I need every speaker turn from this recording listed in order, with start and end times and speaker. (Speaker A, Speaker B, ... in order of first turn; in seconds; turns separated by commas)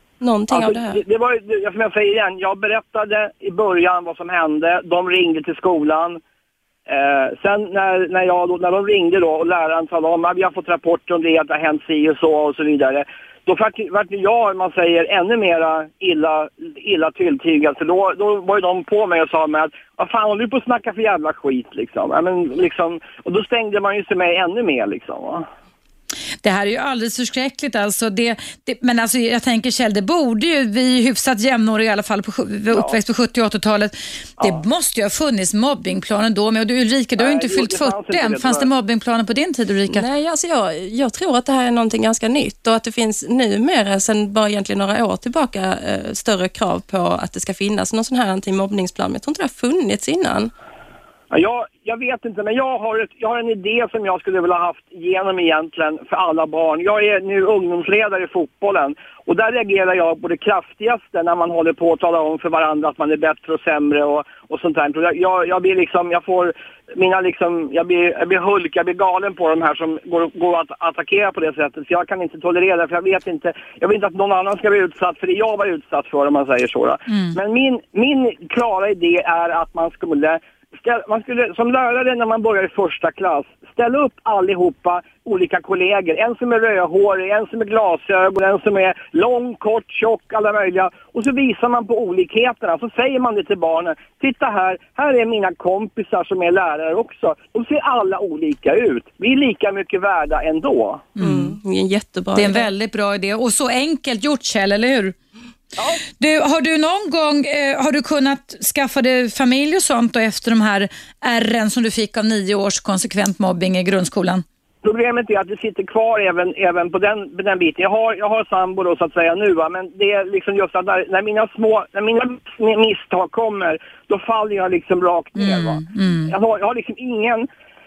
Speaker A: 0.2-1.0, Speaker B: 0.5-6.2, Speaker B: 6.9-25.5, Speaker C: 26.4-40.0, Speaker B: 37.2-38.7, Speaker A: 39.9-50.5, Speaker B: 51.3-101.0, Speaker C: 77.1-77.4, Speaker C: 101.2-101.6, Speaker A: 101.2-102.7, Speaker C: 102.3-105.2, Speaker B: 105.8-106.0, Speaker C: 106.1-114.4, Speaker B: 114.8-127.5, Speaker C: 125.3-126.3